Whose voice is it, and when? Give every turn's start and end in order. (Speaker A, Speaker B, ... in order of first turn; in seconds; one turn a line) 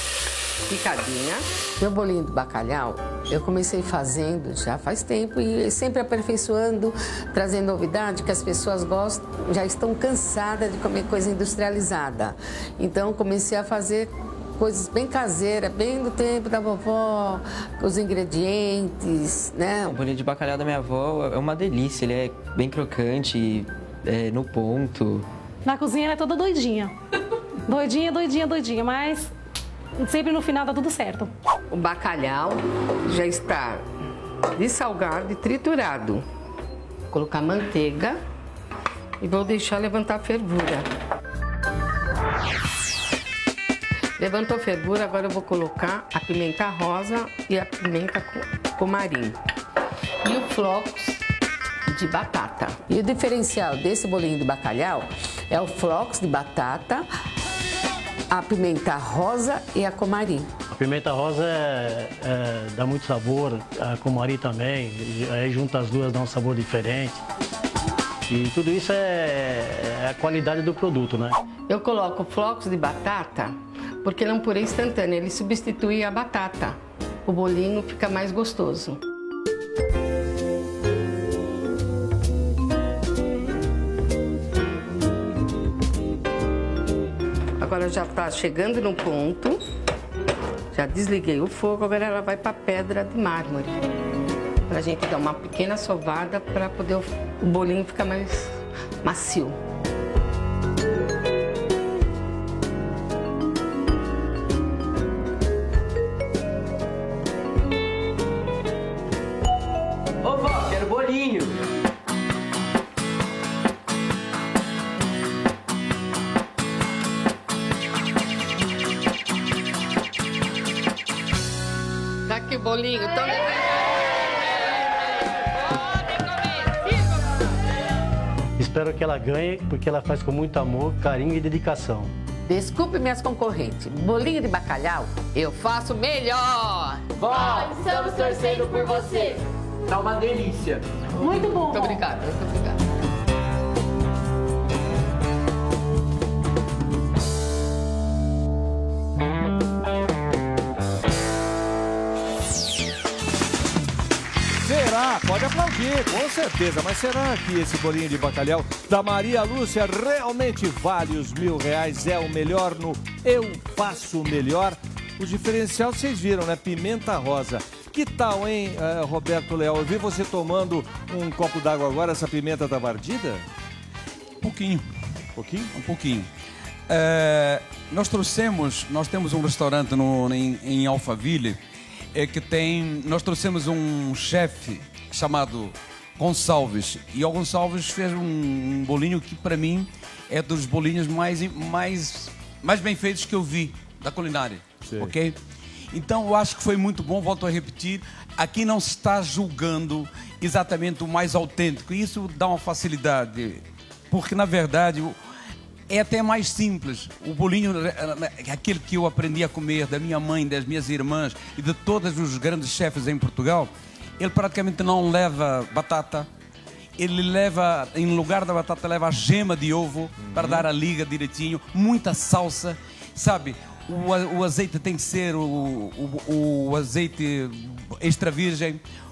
Speaker A: 0.7-20.0
Speaker B: 19.9-25.3
Speaker C: 25.6-26.9
Speaker C: 27.7-29.3
Speaker C: 30.0-31.3
Speaker A: 31.7-33.9
Speaker A: 34.5-36.2
Speaker A: 37.1-38.2
Speaker A: 39.2-40.9
Speaker A: 44.2-49.4
Speaker A: 50.2-51.2
Speaker A: 51.9-57.1
Speaker A: 58.3-60.5
Speaker D: 60.8-67.2
Speaker D: 68.3-71.4
Speaker A: 71.7-79.0
Speaker A: 87.6-89.6
Speaker A: 90.7-93.8
Speaker A: 94.7-98.5
Speaker A: 99.0-99.6
Speaker E: 110.3-111.5
Speaker A: 122.3-123.7
Speaker D: 128.6-132.1
Speaker A: 132.5-137.0
Speaker E: 137.2-139.4
Speaker E: 139.9-140.8
Speaker A: 141.2-142.8
Speaker C: 141.2-142.0
Speaker F: 154.6-173.5
Speaker G: 174.4-174.8
Speaker F: 175.4-175.7
Speaker G: 175.7-176.3
Speaker G: 176.9-181.6
Speaker G: 182.1-195.4
Speaker F: 194.8-195.1
Speaker G: 195.9-205.2
Speaker G: 205.9-216.3
Speaker G: 217.0-228.8
Speaker F: 220.2-220.7